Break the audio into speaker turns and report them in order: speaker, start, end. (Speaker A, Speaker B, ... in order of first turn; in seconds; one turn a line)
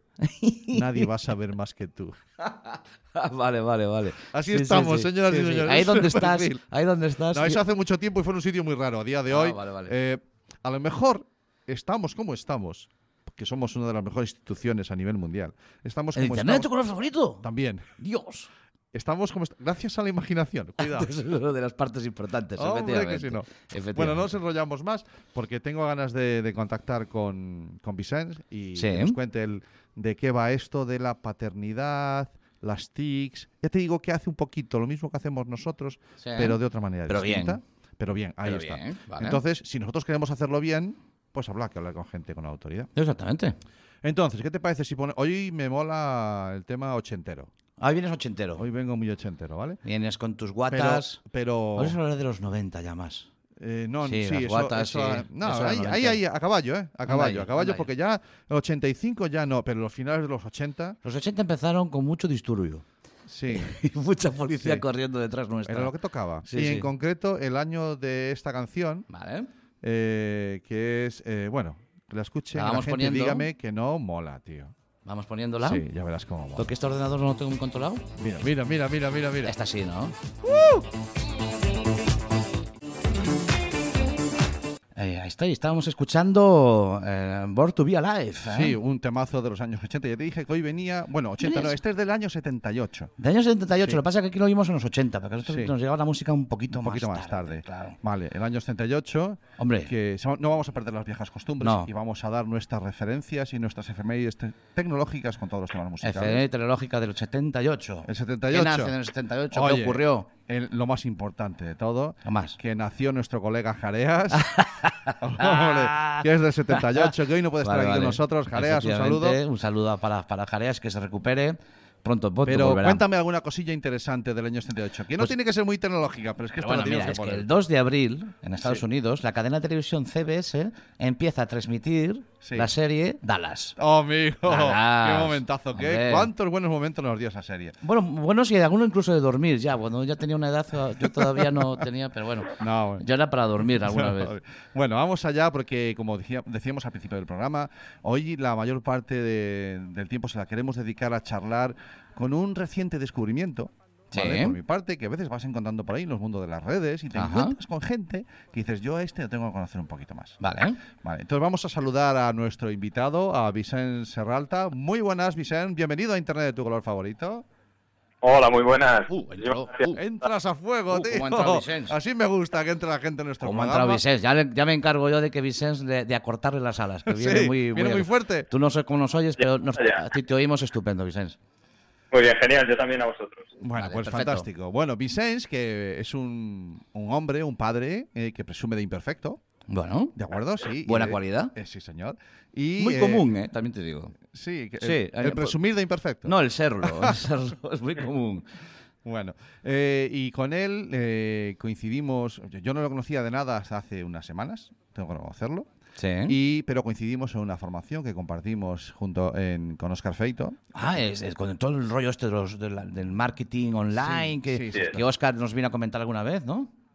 Speaker A: 0.2-1.1
Speaker B: 0.7-2.2
Speaker A: 2.4-7.6
Speaker B: 4.3-6.6
Speaker B: 7.3-16.8
Speaker A: 9.3-9.9
Speaker A: 16.1-17.4
Speaker B: 17.4-17.9
Speaker A: 18.0-18.5
Speaker B: 18.9-21.1
Speaker A: 20.8-24.4
Speaker B: 22.6-42.9
Speaker A: 28.8-29.2
Speaker A: 36.2-37.6
Speaker A: 38.4-39.4
Speaker A: 43.0-43.6
Speaker B: 44.0-47.5
Speaker A: 47.8-48.6
Speaker B: 48.6-49.8
Speaker A: 49.8-51.2
Speaker B: 50.7-52.0
Speaker A: 51.7-53.3
Speaker B: 53.6-61.0
Speaker A: 54.0-56.2
Speaker A: 57.1-57.9
Speaker A: 61.0-62.9
Speaker B: 63.2-63.8
Speaker A: 63.5-65.9
Speaker B: 64.5-64.8
Speaker B: 65.7-69.0
Speaker A: 66.4-66.9
Speaker A: 69.1-69.5
Speaker B: 69.8-74.7
Speaker A: 72.5-73.5
Speaker A: 75.0-75.8
Speaker B: 75.6-76.8
Speaker A: 76.5-78.1
Speaker B: 78.2-79.5
Speaker A: 79.4-80.1
Speaker B: 80.4-80.8
Speaker A: 85.0-88.8
Speaker B: 88.5-93.1
Speaker A: 91.4-91.8
Speaker A: 93.2-98.0
Speaker B: 95.4-95.7
Speaker B: 96.7-106.5
Speaker A: 99.6-99.9
Speaker A: 101.6-101.9
Speaker A: 106.0-110.3
Speaker B: 108.0-109.0
Speaker B: 109.5-114.5
Speaker A: 112.2-112.6
Speaker A: 114.3-123.0
Speaker B: 115.2-119.4
Speaker B: 122.5-127.5
Speaker A: 126.6-133.8
Speaker B: 132.4-132.7
Speaker B: 133.8-137.8
Speaker A: 134.4-136.3
Speaker A: 137.8-144.3
Speaker B: 141.0-141.8
Speaker B: 142.5-143.0
Speaker B: 143.7-160.4
Speaker A: 154.1-154.6
Speaker A: 157.1-157.6
Speaker A: 160.4-160.8
Speaker B: 160.9-167.4
Speaker C: 168.2-169.9
Speaker A: 169.1-170.0
Speaker B: 169.9-174.0
Speaker A: 170.9-171.9
Speaker A: 173.4-181.4
Speaker B: 177.1-178.5
Speaker C: 179.4-180.0
Speaker C: 182.1-183.6
Speaker B: 183.6-189.4
Speaker A: 183.8-184.5
Speaker A: 189.7-190.2
Speaker B: 190.1-193.3
Speaker A: 190.8-191.5
Speaker A: 192.8-194.1
Speaker B: 194.2-197.2
Speaker A: 194.8-195.6
Speaker A: 196.2-198.5
Speaker B: 199.0-205.7
Speaker A: 206.0-206.3
Speaker B: 206.2-210.6
Speaker A: 210.7-216.7
Speaker B: 213.9-215.0